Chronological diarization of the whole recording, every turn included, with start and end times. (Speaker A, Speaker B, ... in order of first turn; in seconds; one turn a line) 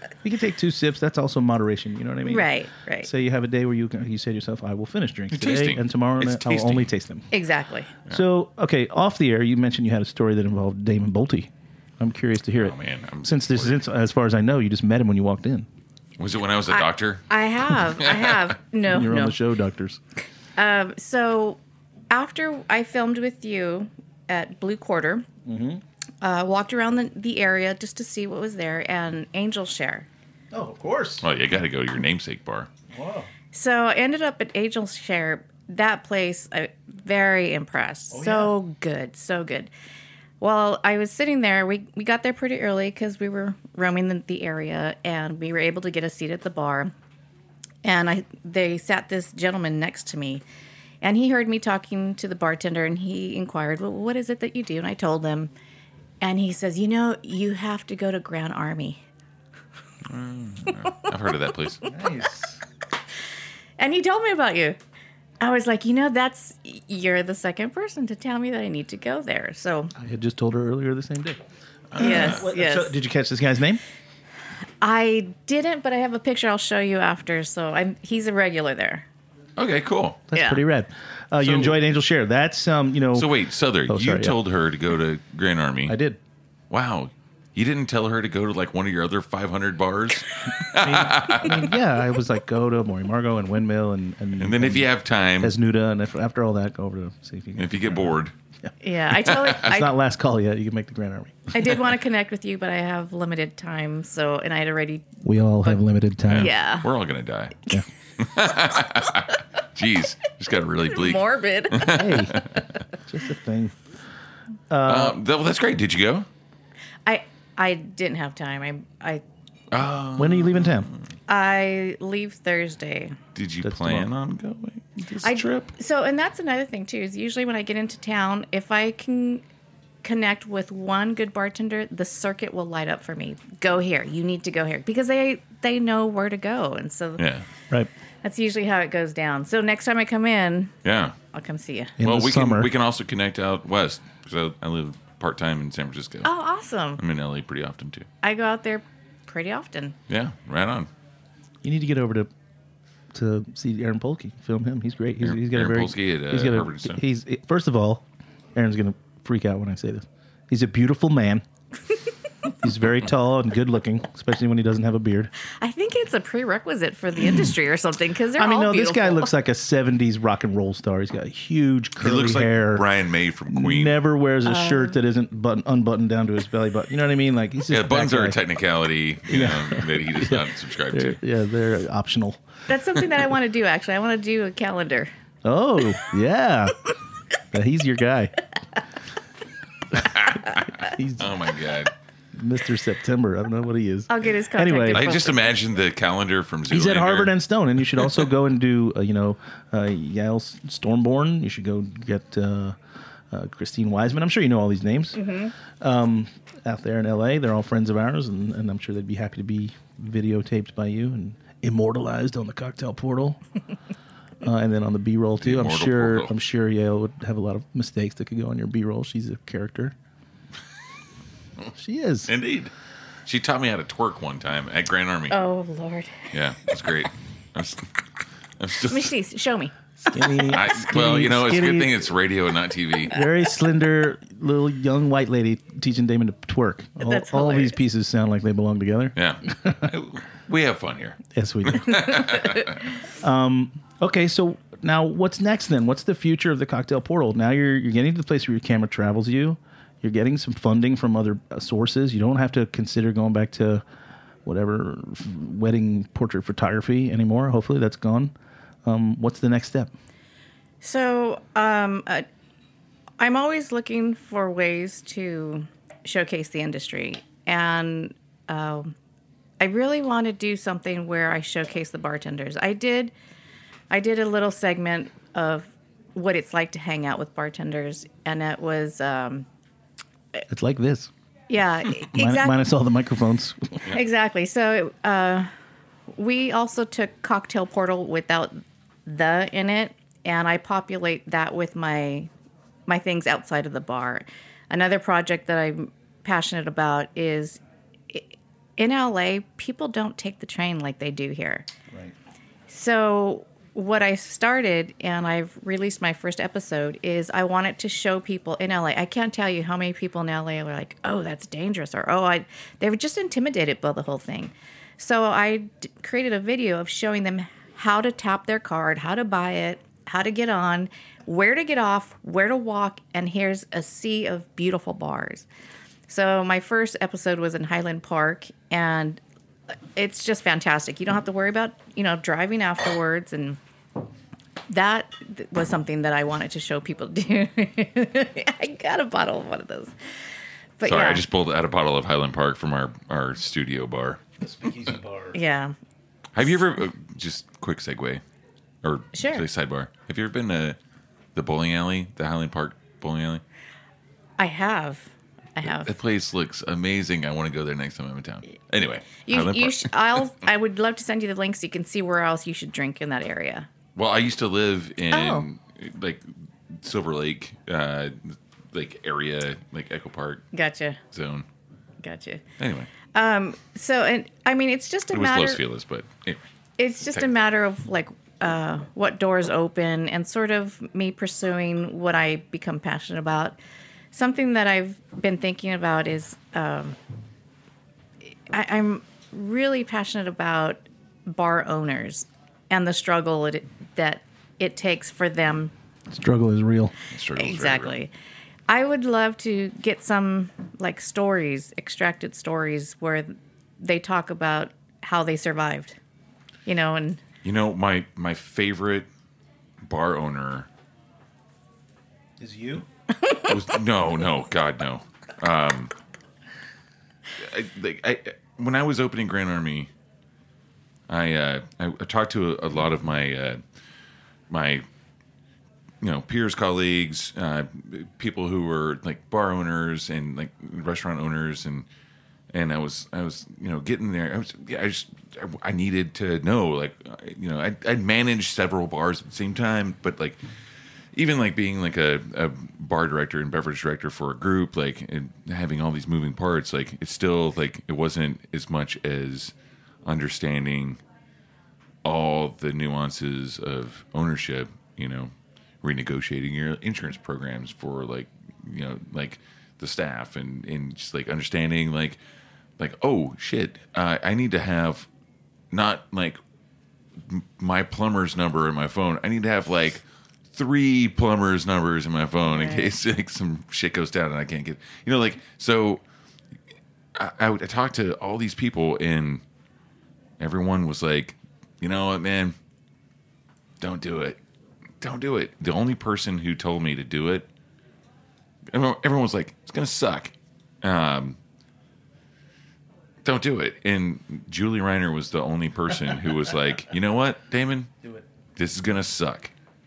Speaker A: 0.2-7.3
Speaker B: 2.2-3.1
Speaker C: 5.3-6.9
Speaker B: 7.3-7.9
Speaker A: 8.1-15.7
Speaker C: 12.6-13.8
Speaker C: 16.2-17.3
Speaker B: 16.7-19.4
Speaker C: 17.8-18.5
Speaker A: 18.9-20.0
Speaker B: 20.6-21.6
Speaker B: 22.1-25.2
Speaker A: 25.4-25.8
Speaker B: 26.2-30.1
Speaker A: 30.5-31.2
Speaker C: 31.2-32.7
Speaker A: 32.9-33.3
Speaker B: 33.5-39.7
Speaker A: 38.1-38.5
Speaker B: 40.4-46.9
Speaker B: 47.8-50.4
Speaker B: 51.0-55.5
Speaker B: 56.2-59.0
Speaker C: 60.0-61.8
Speaker A: 61.9-62.6
Speaker B: 63.8-64.8
Speaker B: 65.4-69.9
Speaker A: 70.0-71.4
Speaker C: 71.9-72.4
Speaker A: 72.0-73.8
Speaker B: 72.0-73.0
Speaker B: 74.8-79.0
Speaker C: 79.6-80.2
Speaker A: 80.3-83.3
Speaker B: 80.3-80.6
Speaker C: 81.4-81.8
Speaker C: 83.1-86.0
Speaker A: 83.8-84.3
Speaker A: 85.9-86.2
Speaker C: 86.7-91.7
Speaker A: 90.7-98.7
Speaker C: 94.4-95.5
Speaker C: 97.6-98.3
Speaker B: 98.8-99.9
Speaker C: 99.2-99.8
Speaker A: 99.4-101.5
Speaker B: 101.5-105.8
Speaker A: 105.2-106.5
Speaker C: 106.3-107.6
Speaker B: 106.3-106.9
Speaker C: 108.2-112.6
Speaker B: 110.9-112.4
Speaker A: 111.8-112.4
Speaker A: 113.1-113.7
Speaker A: 114.7-115.2
Speaker C: 114.8-116.3
Speaker B: 117.0-119.2
Speaker C: 119.7-121.0
Speaker A: 120.2-120.9
Speaker B: 121.3-123.2
Speaker C: 123.3-125.7
Speaker A: 123.6-124.1
Speaker B: 125.2-129.4
Speaker B: 130.0-137.2
Speaker C: 137.2-137.4
Speaker B: 138.2-140.7
Speaker C: 140.8-141.1
Speaker B: 141.3-141.9
Speaker A: 142.0-142.7
Speaker C: 142.0-146.3
Speaker B: 146.2-147.0
Speaker C: 147.0-148.1
Speaker B: 148.2-149.9
Speaker C: 150.1-150.9
Speaker A: 151.6-152.3
Speaker A: 153.1-161.4
Speaker C: 155.2-157.0
Speaker A: 162.6-165.3
Speaker B: 165.6-169.3
Speaker A: 168.3-172.9
Speaker C: 172.0-174.0
Speaker A: 173.5-178.4
Speaker B: 174.4-175.0
Speaker C: 177.7-181.2
Speaker A: 179.3-182.4
Speaker B: 182.7-185.1
Speaker A: 185.4-186.8
Speaker A: 187.5-188.3
Speaker C: 190.0-191.9
Speaker A: 190.8-191.3
Speaker A: 192.3-195.1
Speaker B: 194.1-195.5
Speaker C: 194.9-197.3
Speaker A: 196.7-202.8
Speaker A: 203.3-205.3
Speaker B: 205.1-205.5
Speaker A: 205.8-213.4
Speaker A: 214.4-219.9
Speaker C: 215.4-216.3
Speaker A: 221.8-222.3
Speaker C: 222.3-222.7
Speaker C: 223.2-225.4
Speaker B: 225.3-226.3
Speaker C: 226.3-227.9
Speaker C: 228.6-229.1
Speaker B: 228.9-230.5
Speaker A: 230.1-232.0
Speaker C: 230.5-233.1
Speaker A: 233.0-239.9
Speaker B: 237.0-237.8
Speaker C: 239.2-242.8
Speaker A: 241.3-242.4
Speaker A: 243.2-253.8
Speaker A: 254.4-258.3
Speaker A: 258.8-259.9
Speaker B: 260.8-262.2
Speaker B: 263.2-268.9
Speaker B: 269.6-273.1
Speaker B: 273.9-279.5
Speaker A: 280.5-281.1
Speaker B: 281.5-282.6
Speaker A: 282.1-283.8
Speaker B: 283.9-285.5
Speaker B: 286.1-292.3
Speaker B: 292.9-301.7
Speaker B: 302.7-325.4
Speaker B: 326.1-329.2
Speaker B: 329.9-333.6
Speaker B: 334.7-339.9
Speaker B: 340.8-341.2
Speaker C: 340.8-344.2
Speaker A: 344.4-345.4
Speaker B: 345.3-345.7
Speaker C: 346.3-348.2
Speaker C: 348.8-350.8
Speaker B: 349.1-349.4
Speaker C: 351.3-353.4
Speaker B: 354.4-355.9
Speaker C: 355.6-359.9
Speaker B: 359.2-363.7
Speaker C: 363.9-370.4
Speaker B: 365.1-365.4
Speaker B: 370.5-371.0
Speaker C: 371.1-371.4
Speaker B: 372.0-372.4
Speaker C: 372.6-372.9
Speaker B: 373.1-375.6
Speaker C: 375.1-376.4
Speaker B: 376.8-383.6
Speaker B: 384.1-387.0
Speaker B: 388.5-395.7
Speaker A: 396.1-396.9
Speaker C: 397.1-398.0
Speaker B: 397.4-398.1
Speaker B: 398.7-406.0
Speaker B: 406.6-407.2
Speaker C: 407.4-409.1
Speaker C: 409.8-410.7
Speaker A: 412.4-412.9
Speaker C: 413.4-415.9
Speaker C: 417.4-419.9
Speaker C: 421.1-423.6
Speaker C: 424.5-424.8
Speaker C: 426.0-431.9
Speaker C: 432.5-440.4
Speaker C: 441.1-449.5
Speaker C: 450.0-451.0
Speaker C: 452.0-455.3
Speaker C: 455.8-462.2
Speaker C: 462.8-465.1
Speaker C: 465.7-466.4
Speaker C: 467.2-476.0
Speaker B: 472.5-472.9
Speaker C: 477.1-479.4
Speaker C: 480.4-482.5
Speaker C: 483.8-484.4
Speaker C: 485.0-487.5
Speaker C: 488.7-491.4
Speaker C: 493.2-497.9
Speaker C: 498.6-499.5